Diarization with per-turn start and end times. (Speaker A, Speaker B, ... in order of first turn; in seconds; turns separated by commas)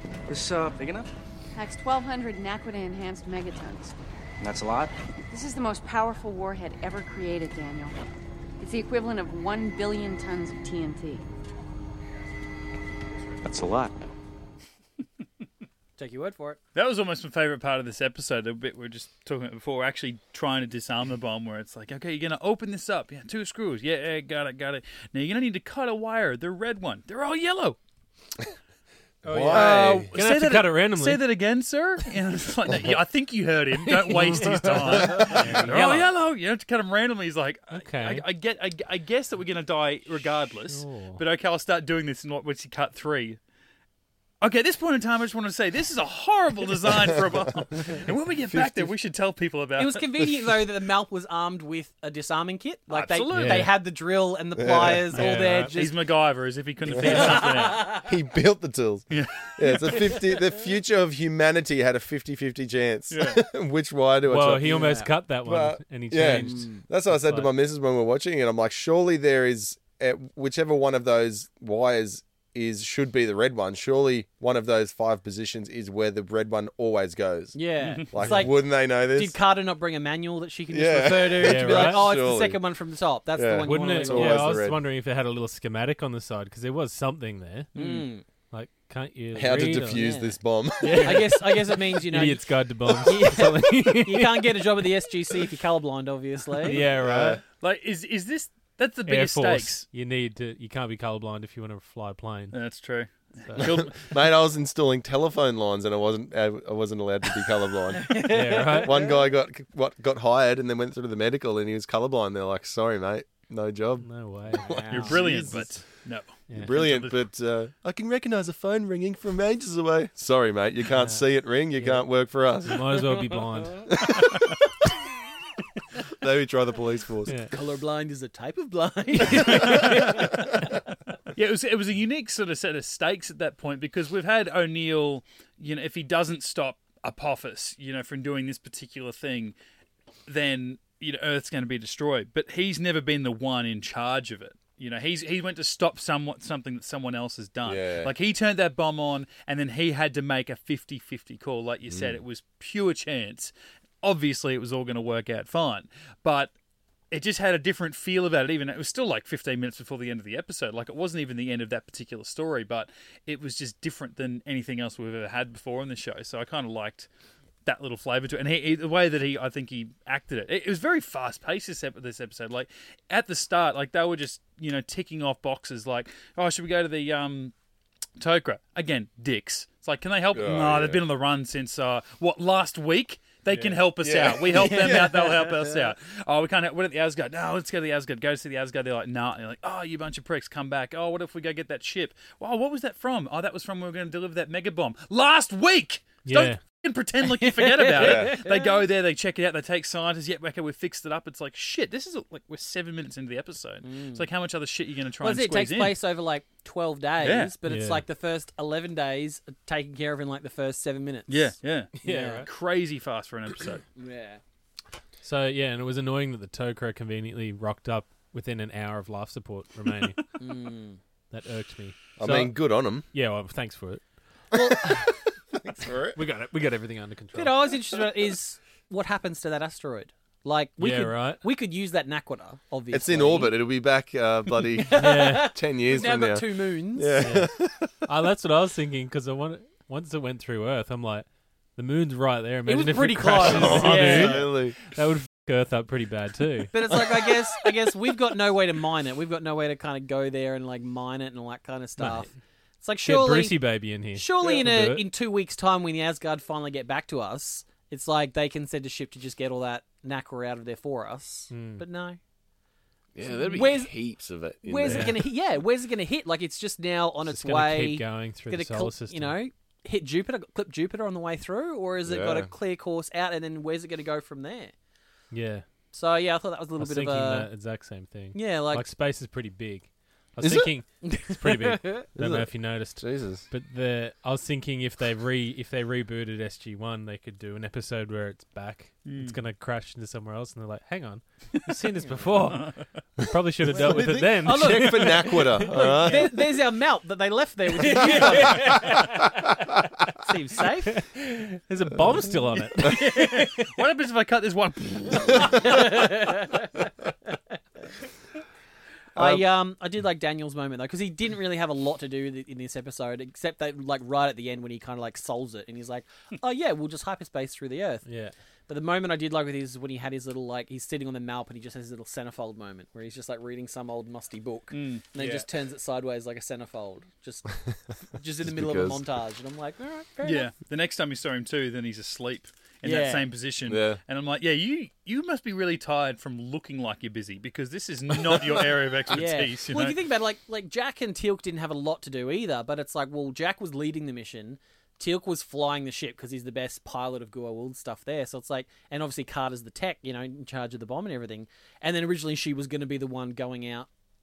Speaker A: 0.3-1.1, Speaker B: 1.6-3.9, Speaker A: 4.4-4.9, Speaker B: 5.3-8.0, Speaker B: 8.6-11.2, Speaker A: 13.4-14.0, Speaker C: 16.0-16.6, Speaker D: 16.8-27.8, Speaker E: 29.2-30.1, Speaker F: 29.2-31.2, Speaker D: 29.4-43.4, Speaker F: 33.8-36.1, Speaker F: 37.7-38.2, Speaker F: 40.7-41.2, Speaker D: 44.4-50.2, Speaker E: 48.5-48.9, Speaker C: 49.8-56.0, Speaker D: 52.9-53.7, Speaker F: 53.3-53.7, Speaker E: 54.6-55.1, Speaker F: 55.1-55.7, Speaker D: 55.2-58.0, Speaker E: 56.9-79.4, Speaker C: 57.0-57.8, Speaker D: 59.1-60.2, Speaker D: 63.1-63.4, Speaker F: 64.3-67.5, Speaker C: 64.6-65.1, Speaker C: 66.2-66.8, Speaker C: 77.5-84.6, Speaker F: 78.2-78.5, Speaker E: 80.7-82.6, Speaker F: 81.4-82.1, Speaker E: 83.3-84.8, Speaker F: 83.6-87.7, Speaker D: 87.8-88.0, Speaker C: 87.8-88.2, Speaker F: 88.5-90.1, Speaker E: 89.3-91.3, Speaker C: 89.9-96.8, Speaker F: 90.8-94.7, Speaker F: 96.6-97.4, Speaker E: 97.0-97.4, Speaker D: 97.6-99.9, Speaker F: 99.1-102.6, Speaker D: 102.5-104.1, Speaker F: 103.5-103.7, Speaker E: 103.6-115.7, Speaker C: 108.1-109.0, Speaker F: 108.2-109.0, Speaker F: 114.0-115.1, Speaker C: 114.6-115.2, Speaker D: 114.9-117.2, Speaker F: 116.5-116.8, Speaker E: 116.6-123.1, Speaker F: 121.8-122.0, Speaker F: 122.6-124.0, Speaker E: 123.9-124.5, Speaker E: 126.2-127.4, Speaker F: 127.3-127.5, Speaker C: 127.5-130.3, Speaker D: 129.5-130.0, Speaker E: 129.6-130.2, Speaker D: 131.3-139.5, Speaker D: 140.3-156.5, Speaker E: 147.6-148.1, Speaker E: 151.9-152.2, Speaker D: 157.1-167.1, Speaker D: 167.7-177.5, Speaker D: 178.2-206.0, Speaker E: 180.3-181.0, Speaker F: 183.5-183.8, Speaker E: 184.0-185.3, Speaker F: 196.2-196.6, Speaker C: 197.4-198.8, Speaker E: 197.9-198.4, Speaker C: 203.8-204.3, Speaker C: 205.2-212.5, Speaker D: 207.2-207.5, Speaker F: 207.7-208.0, Speaker D: 211.3-213.8, Speaker F: 212.0-212.5, Speaker C: 214.0-214.4, Speaker F: 215.2-220.4, Speaker C: 220.4-221.0, Speaker F: 221.3-224.0, Speaker E: 222.2-223.1, Speaker C: 224.5-224.9, Speaker E: 224.5-225.0, Speaker E: 225.6-226.2, Speaker F: 226.1-227.7, Speaker C: 227.3-233.6, Speaker F: 230.8-231.4, Speaker E: 232.9-237.9, Speaker C: 234.8-237.3, Speaker F: 234.9-235.5, Speaker F: 237.2-247.3, Speaker C: 242.7-244.4, Speaker E: 243.4-244.8, Speaker C: 246.7-252.3, Speaker F: 252.0-252.3, Speaker C: 252.8-262.2, Speaker F: 253.0-255.0, Speaker F: 261.5-261.8, Speaker E: 263.1-265.2, Speaker C: 263.3-263.9, Speaker C: 264.6-274.7, Speaker F: 264.9-265.2, Speaker F: 267.3-269.4, Speaker E: 272.1-272.5, Speaker F: 275.3-275.6, Speaker C: 275.9-277.5, Speaker F: 276.8-296.2, Speaker C: 278.3-278.9, Speaker E: 280.4-280.7, Speaker C: 281.1-282.0, Speaker E: 282.1-283.5, Speaker D: 289.1-289.4, Speaker C: 292.0-292.4, Speaker D: 292.5-292.9, Speaker E: 293.7-296.3, Speaker C: 293.7-299.0, Speaker F: 297.8-298.9, Speaker C: 300.2-301.0, Speaker F: 300.9-303.7, Speaker D: 302.8-305.8, Speaker C: 305.4-306.9, Speaker E: 309.1-309.4, Speaker C: 309.2-318.1, Speaker F: 318.1-318.3, Speaker C: 318.7-327.5, Speaker D: 324.7-325.1, Speaker F: 325.2-325.5, Speaker C: 328.1-330.5, Speaker E: 328.4-329.0, Speaker D: 330.2-340.0, Speaker C: 332.8-333.3, Speaker E: 333.7-334.0, Speaker C: 339.1-353.9